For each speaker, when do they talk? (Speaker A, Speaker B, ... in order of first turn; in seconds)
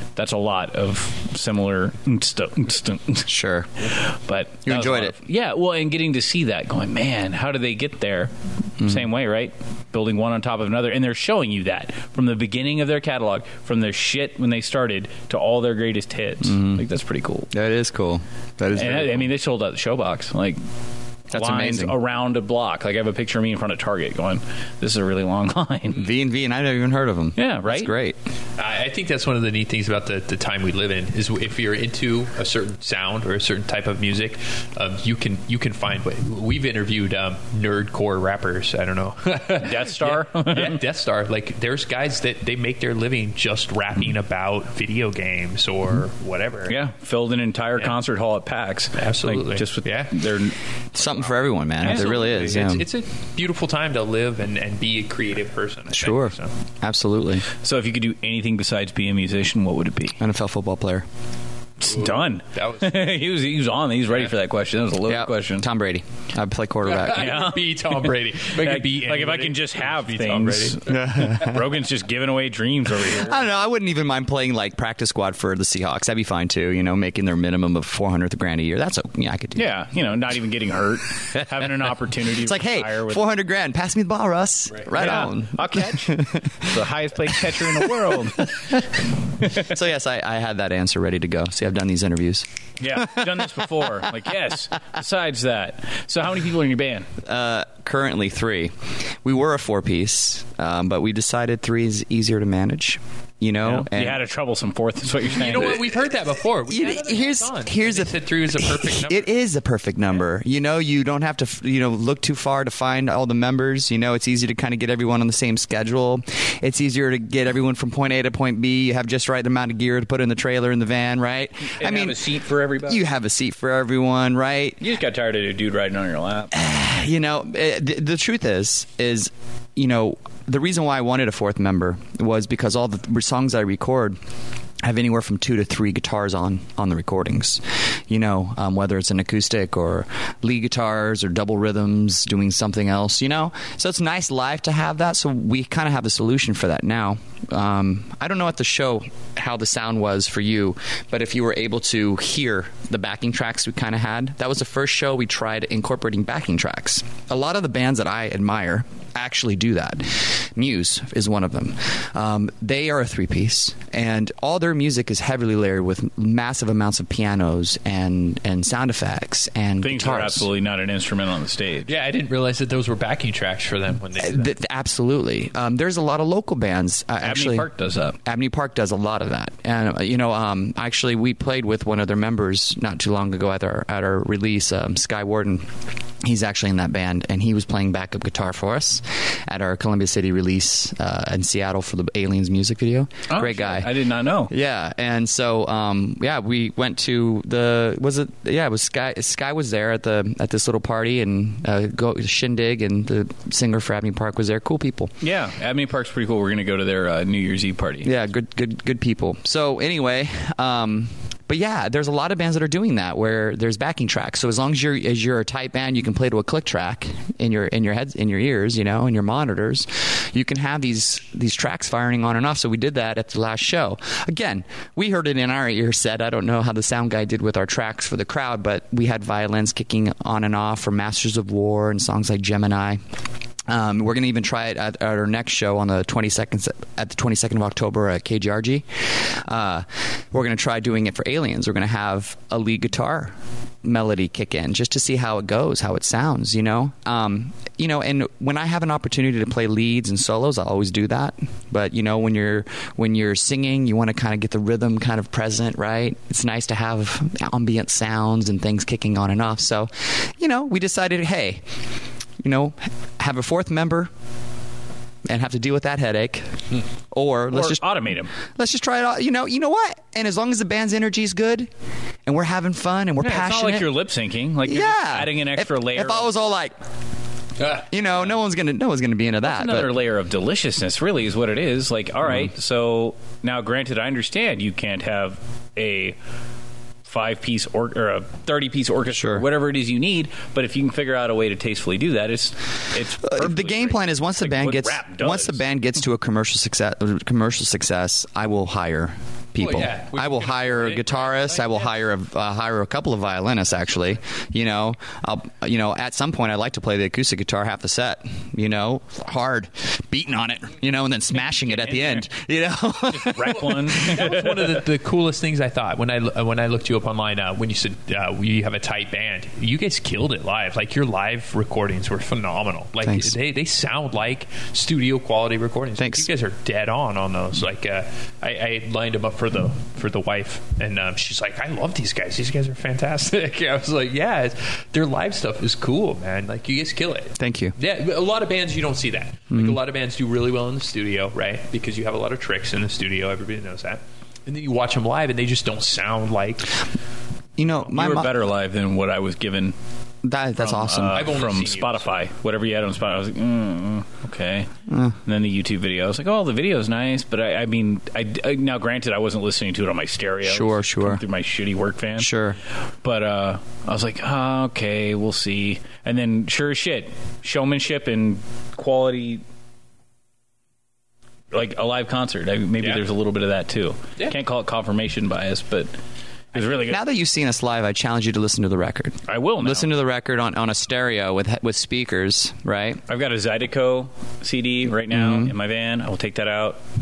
Speaker A: 0.1-3.3, 3.9-8.3, 8.8-17.5, 18.7-20.6, 21.3-26.1, 27.4-27.9, 39.6-40.8, 46.7-50.5, 51.8-52.4, 57.6-60.2, 61.8-65.7, 67.1-73.4, 79.5-83.2, 84.9-88.8, 92.8-97.1, 103.6-105.8, 121.8-123.0, 124.8-126.6, 169.8-171.9, 177.2-178.2, 193.3-194.5, 205.2-208.1, 267.5-268.3, 273.2-276.3, 279.4-286.2, 287.1-295.6, 311.7-312.2, 313.1-314.8, 347.9-349.7, 350.6-354.7, 355.2-362.3, 363.0-369.4, 371.5-375.9, 376.5-377.0, 379.3-379.9, 383.1-386.8
Speaker B: 3.3-3.7, 4.7-5.1, 16.4-16.8, 17.5-19.2, 21.3-21.9, 25.9-28.1, 50.9-52.9, 55.9-57.5, 60.2-61.0, 65.1-67.4, 70.9-71.8, 73.1-79.7, 82.4-86.8, 87.5-88.8, 89.5-92.4, 97.2-104.2, 106.7-122.3, 122.8-124.8, 126.5-134.2, 134.8-170.5, 174.2-177.7, 178.2-185.7, 186.2-193.9, 194.5-205.1, 208.0-233.0, 233.7-261.6, 262.4-264.1, 265.2-266.6, 267.1-267.9, 268.5-271.7, 272.2-273.9, 274.6-276.7, 277.8-279.9, 289.1-289.4, 293.3-314.2, 323.0-323.4, 326.0-326.3, 337.4-337.7, 339.5-339.8, 347.6-348.3, 350.2-351.3, 354.9-355.2, 360.4-361.2, 362.2-362.6, 376.8-383.0, 385.1-385.5
Speaker C: 28.6-46.8, 49.0-50.2, 51.8-56.5, 61.9-63.0, 66.8-70.8, 105.3-109.3, 171.9-174.5, 299.6-301.9, 313.9-346.8, 351.1-352.1